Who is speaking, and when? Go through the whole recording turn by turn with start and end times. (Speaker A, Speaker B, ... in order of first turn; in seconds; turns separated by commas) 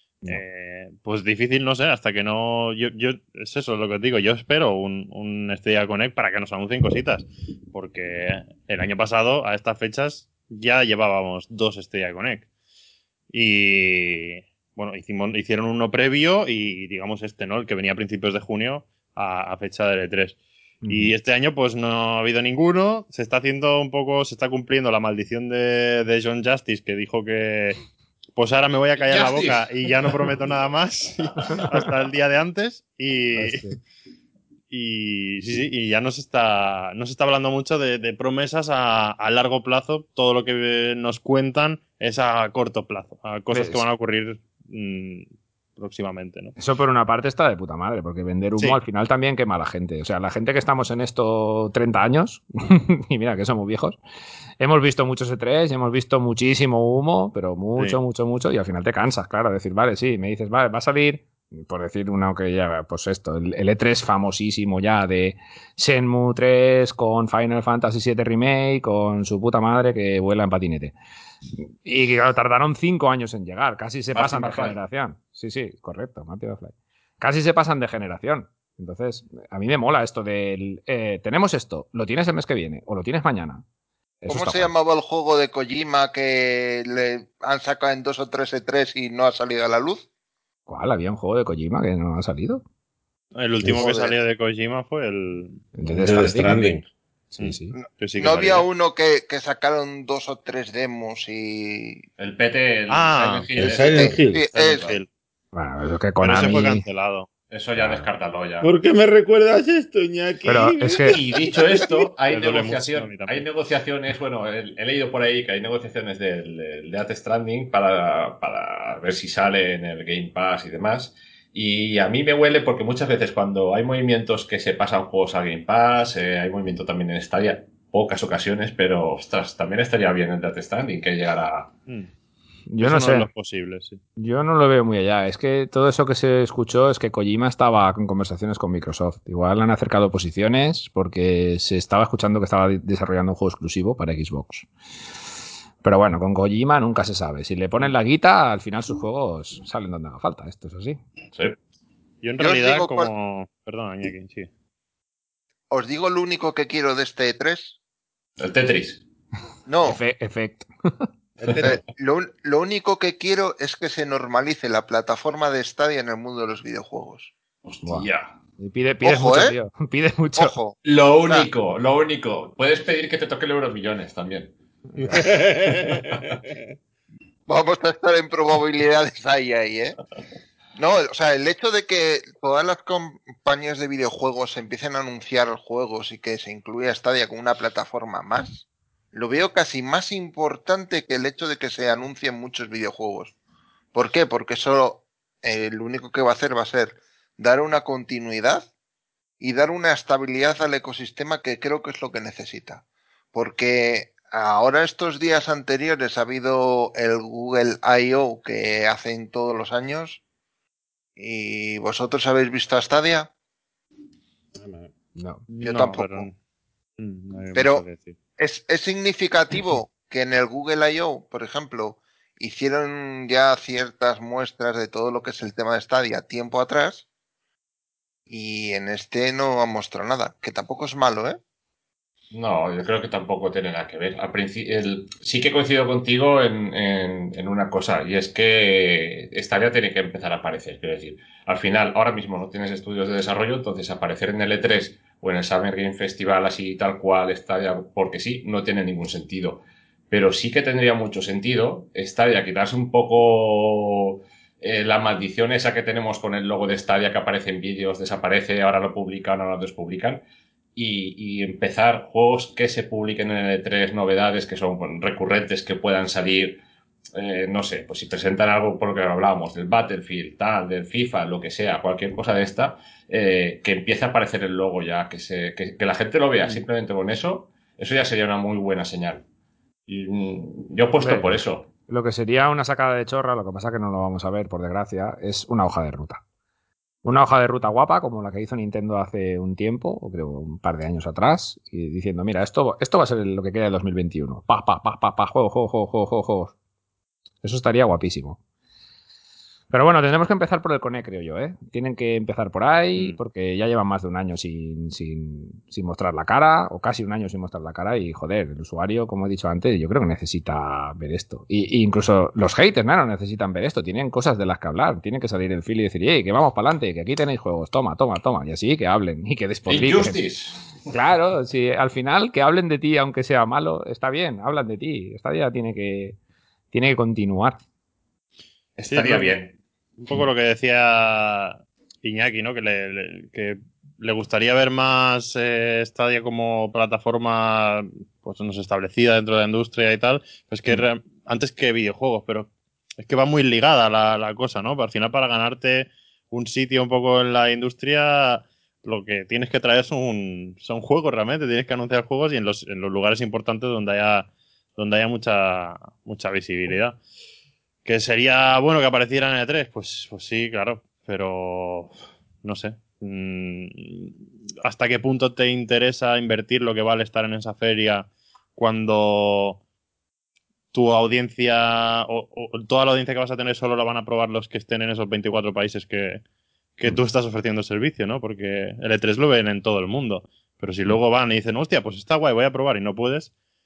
Speaker A: 0.3-12.5, Speaker A: 13.3-20.4, Speaker B: 20.8-21.1, Speaker A: 20.9-27.8, Speaker A: 28.4-33.6, Speaker C: 29.0-29.6, Speaker B: 33.4-33.8, Speaker A: 34.7-46.5, Speaker B: 43.5-43.8, Speaker B: 46.6-54.0, Speaker B: 54.6-70.9, Speaker B: 71.5-83.6, Speaker C: 74.1-74.8, Speaker B: 84.2-84.7, Speaker D: 84.3-90.0, Speaker B: 90.7-92.6, Speaker A: 93.3-95.6, Speaker D: 93.8-94.1, Speaker B: 95.7-96.8, Speaker E: 95.9-96.9, Speaker B: 97.3-97.7, Speaker A: 97.4-98.7, Speaker D: 97.7-102.0, Speaker C: 102.2-105.0, Speaker A: 102.9-103.5, Speaker E: 103.6-104.5, Speaker D: 103.8-104.9, Speaker B: 105.5-106.8, Speaker A: 106.2-107.3, Speaker C: 107.5-108.7, Speaker E: 108.6-111.2, Speaker B: 110.5-111.2, Speaker C: 111.1-131.7, Speaker A: 112.3-113.4, Speaker B: 132.7-133.3, Speaker A: 132.8-134.0, Speaker B: 134.2-144.7, Speaker B: 145.8-151.0, Speaker A: 152.2-154.5, Speaker D: 152.4-153.1, Speaker D: 155.7-157.8, Speaker C: 158.4-159.0, Speaker D: 159.7-160.0, Speaker B: 159.8-161.1, Speaker E: 161.4-161.8, Speaker D: 161.6-167.3, Speaker C: 167.7-168.3, Speaker B: 168.6-170.5, Speaker D: 169.0-169.5, Speaker D: 170.3-171.5, Speaker C: 170.8-174.5, Speaker E: 174.9-176.7, Speaker D: 177.5-180.0, Speaker D: 180.8-193.3, Speaker D: 193.9-198.7, Speaker D: 199.4-202.8, Speaker D: 203.3-210.2, Speaker D: 211.2-213.3, Speaker E: 214.5-214.9, Speaker B: 215.2-215.4, Speaker A: 215.5-216.3, Speaker D: 215.6-216.2, Speaker A: 217.0-218.2, Speaker D: 217.5-217.8, Speaker D: 218.4-227.0, Speaker D: 228.3-231.4, Speaker C: 232.3-260.2, Speaker C: 260.8-266.6, Speaker C: 267.1-279.2, Speaker C: 279.9-281.7, Speaker B: 281.0-286.2, Speaker B: 287.0-296.5, Speaker B: 297.4-298.4, Speaker B: 299.7-320.2, Speaker C: 319.7-320.8, Speaker B: 320.9-326.2, Speaker B: 326.7-327.6, Speaker C: 328.8-329.5, Speaker A: 328.9-329.4, Speaker A: 330.0-357.0, Speaker A: 357.8-369.6, Speaker A: 370.7-376.2, Speaker A: 376.8-383.3